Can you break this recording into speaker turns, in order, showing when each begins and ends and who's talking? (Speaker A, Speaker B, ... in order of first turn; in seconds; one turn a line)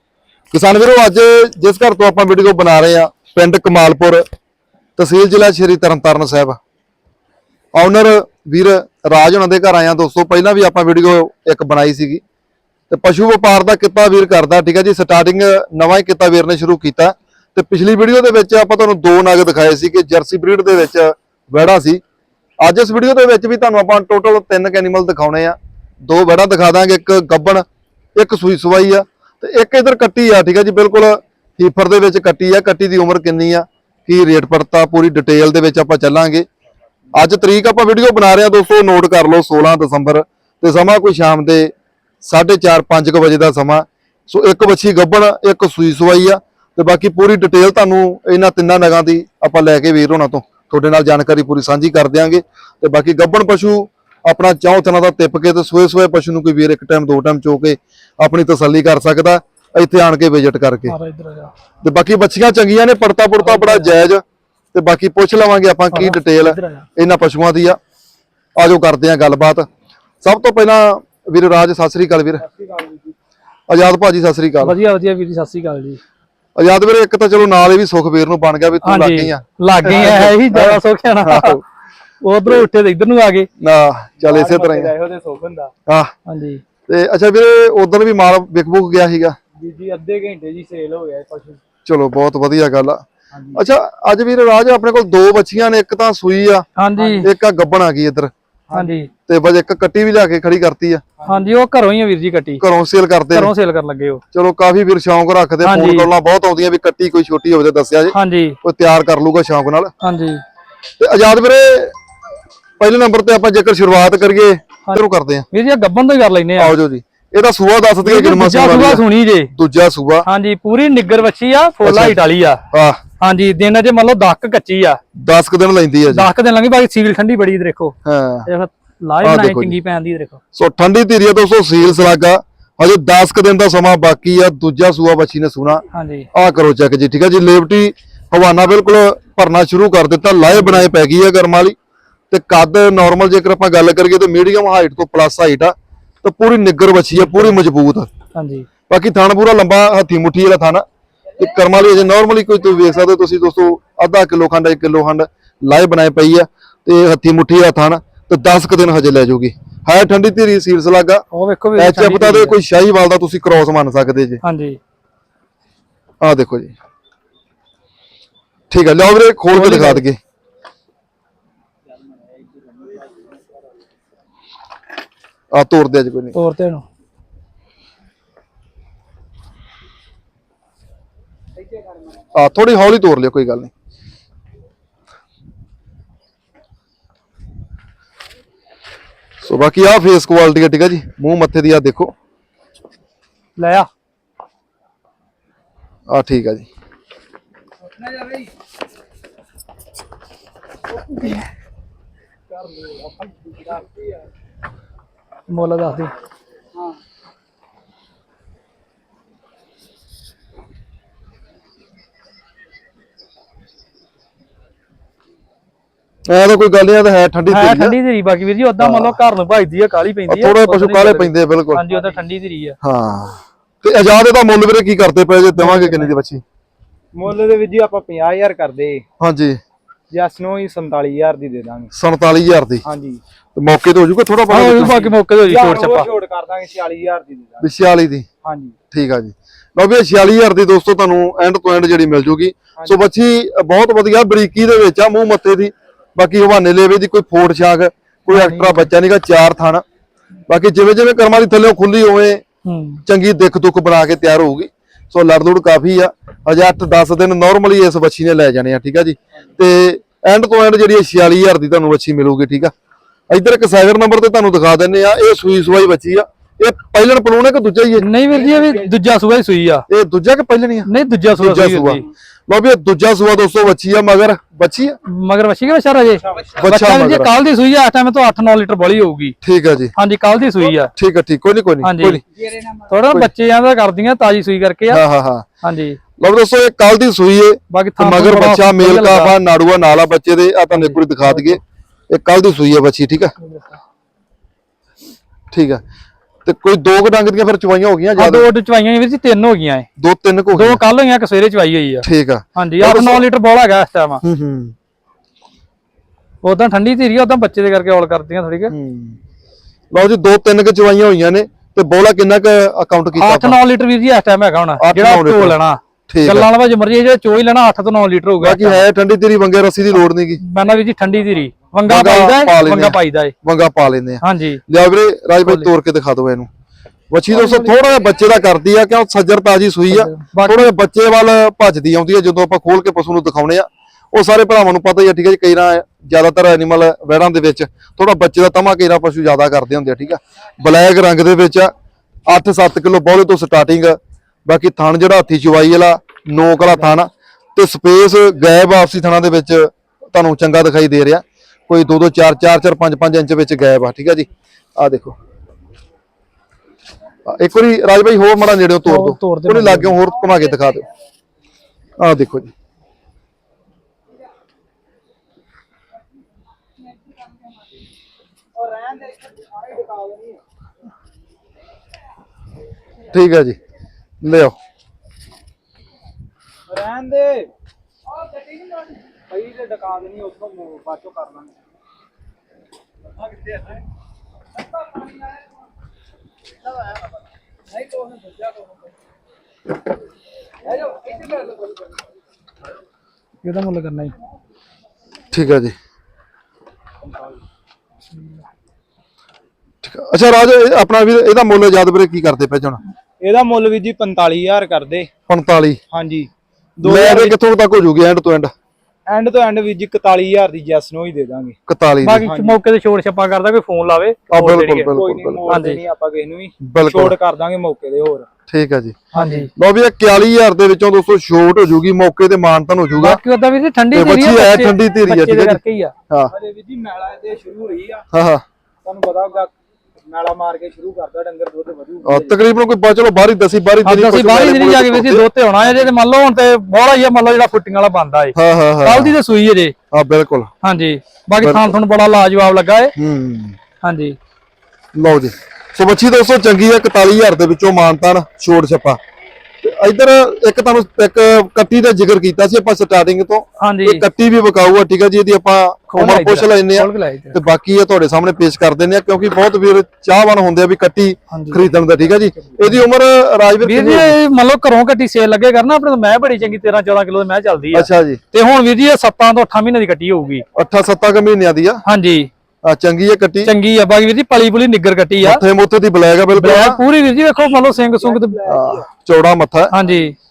Speaker A: 0.5-4.2
Speaker A: 5.0-6.6
Speaker A: 7.7-12.2
Speaker A: 12.9-22.0
Speaker A: 22.6-27.6
Speaker A: 28.1-36.5
Speaker A: 37.1-61.0
Speaker B: 60.9-61.5
Speaker A: 61.8-67.8
Speaker B: 63.4-64.0
Speaker B: 65.9-66.8
Speaker A: 68.5-69.7
Speaker A: 70.2-72.4
Speaker C: 72.4-73.2
Speaker A: 73.7-74.8
Speaker B: 74.6-76.0
Speaker A: 76.6-81.6
Speaker B: 78.8-81.6
Speaker C: 79.9-80.2
Speaker B: 82.2-83.5
Speaker A: 83.6-84.9
Speaker C: 84.2-85.7
Speaker A: 85.9-86.1
Speaker B: 86.2-86.6
Speaker A: 86.9-89.3
Speaker C: 89.6-91.6
Speaker A: 91.8-93.0
Speaker C: 93.3-93.6
Speaker A: 93.5-96.6
Speaker B: 96.8-97.3
Speaker C: 97.0-97.3
Speaker A: 97.2-98.3
Speaker C: 98.7-99.0
Speaker B: 98.7-99.1
Speaker A: 99.3-101.0
Speaker C: 101.2-101.5
Speaker B: 101.2-102.6
Speaker A: 102.6-103.5
Speaker B: 103.3-104.2
Speaker A: 104.3-109.9
Speaker B: 105.6-106.1
Speaker B: 108.1-108.6
Speaker B: 110.0-110.4
Speaker A: 111.0-111.9
Speaker A: 112.8-115.4
Speaker B: 115.5-116.8
Speaker A: 116.6-120.2
Speaker B: 118.0-119.5
Speaker B: 120.2-122.6
Speaker A: 121.8-122.2
Speaker A: 122.7-123.0
Speaker B: 123.2-125.0
Speaker A: 125.1-126.3
Speaker B: 126.1-130.4
Speaker A: 128.0-128.5
Speaker A: 129.2-129.8
Speaker A: 130.5-135.8
Speaker B: 135.9-136.3
Speaker A: 136.3-141.7
Speaker B: 140.5-140.9
Speaker A: 142.3-148.1
Speaker B: 147.3-147.5
Speaker B: 148.3-148.7
Speaker A: 148.9-150.8
Speaker A: 151.4-161.2
Speaker B: 161.3-162.6
Speaker A: 161.8-164.4
Speaker B: 164.4-164.8
Speaker A: 166.2-166.7
Speaker A: 168.7-170.2
Speaker B: 169.5-170.0
Speaker A: 175.5-176.3
Speaker B: 176.3-176.8
Speaker A: 182.3-183.7
Speaker A: 189.4-192.1
Speaker B: 193.6-193.9
Speaker A: 196.1-196.7
Speaker C: 198.0-198.4
Speaker C: 202.5-204.2
Speaker B: 205.5-206.1
Speaker A: 216.2-218.0
Speaker B: 217.5-222.8
Speaker A: 218.8-219.2
Speaker A: 220.3-221.8
Speaker A: 222.8-226.4
Speaker C: 225.6-226.1
Speaker C: 227.1-229.0
Speaker A: 229.2-229.6
Speaker C: 230.1-231.9
Speaker A: 231.9-232.8
Speaker C: 232.8-233.2
Speaker A: 233.5-235.1
Speaker B: 234.5-236.1
Speaker C: 235.4-237.7
Speaker A: 237.6-238.2
Speaker C: 238.4-238.8
Speaker A: 238.9-249.8
Speaker C: 248.3-248.9
Speaker A: 250.5-252.4
Speaker B: 252.6-253.0
Speaker A: 253.1-262.7
Speaker A: 263.3-268.1
Speaker B: 268.0-269.8
Speaker C: 268.3-268.9
Speaker A: 269.9-274.9
Speaker B: 270.9-272.0
Speaker B: 275.1-279.4
Speaker C: 276.2-276.6
Speaker A: 276.6-277.3
Speaker A: 279.4-279.9
Speaker B: 279.9-280.9
Speaker A: 280.9-282.2
Speaker B: 281.8-282.2
Speaker C: 282.3-282.9
Speaker B: 282.9-285.0
Speaker A: 284.9-285.5
Speaker B: 285.6-286.0
Speaker A: 286.2-293.3
Speaker B: 287.7-289.3
Speaker B: 290.7-291.6
Speaker B: 293.4-293.8
Speaker A: 295.5-295.8
Speaker A: 296.4-298.5
Speaker B: 298.2-299.9
Speaker A: 300.0-300.8
Speaker B: 300.5-304.2
Speaker A: 302.0-303.2
Speaker A: 304.2-304.7
Speaker B: 306.4-308.7
Speaker A: 308.7-309.2
Speaker A: 309.9-313.6
Speaker B: 313.2-318.8
Speaker A: 314.8-316.5
Speaker A: 318.4-320.4
Speaker B: 320.4-323.3
Speaker A: 321.9-326.5
Speaker B: 324.2-324.6
Speaker B: 325.4-325.7
Speaker A: 327.1-341.7
Speaker B: 327.3-327.7
Speaker B: 329.9-330.7
Speaker A: 342.3-355.1
Speaker A: 357.2-360.9
Speaker B: 358.8-360.0
Speaker A: 362.0-362.5
Speaker C: 368.5-370.4
Speaker A: 373.1-373.6
Speaker A: 374.2-374.6
Speaker C: 376.7-377.5
Speaker C: 378.4-381.6
Speaker B: 393.4-394.1
Speaker A: 395.3-395.7
Speaker C: 397.0-397.3
Speaker A: 399.8-402.8
Speaker C: 403.2-405.1
Speaker A: 405.3-405.8
Speaker C: 405.9-407.4
Speaker A: 406.8-408.5
Speaker C: 409.1-411.6
Speaker A: 411.7-412.3
Speaker B: 412.0-414.9
Speaker C: 412.2-412.6
Speaker A: 414.3-415.4
Speaker C: 414.9-418.3
Speaker B: 415.5-415.8
Speaker A: 416.6-417.1
Speaker A: 418.5-423.2
Speaker C: 419.1-419.5
Speaker B: 419.1-419.5
Speaker B: 423.0-425.9
Speaker A: 423.9-426.3
Speaker C: 426.3-428.1
Speaker A: 428.1-428.4
Speaker C: 428.8-429.5
Speaker C: 430.1-432.4
Speaker A: 432.0-435.2
Speaker B: 433.8-439.7
Speaker A: 438.3-439.2
Speaker A: 439.9-440.5
Speaker B: 440.6-442.9
Speaker A: 441.4-441.7
Speaker A: 442.9-443.6
Speaker B: 443.8-444.2
Speaker A: 444.9-449.0
Speaker A: 449.6-464.2
Speaker B: 453.6-454.0
Speaker B: 455.9-457.4
Speaker B: 461.3-461.7
Speaker B: 463.6-470.4
Speaker A: 467.7-468.2
Speaker A: 470.5-471.8
Speaker B: 471.8-472.3
Speaker A: 472.6-473.5
Speaker B: 473.4-475.4
Speaker A: 475.2-476.8
Speaker B: 476.3-478.4
Speaker C: 478.0-478.8
Speaker A: 478.4-479.7
Speaker B: 479.7-480.1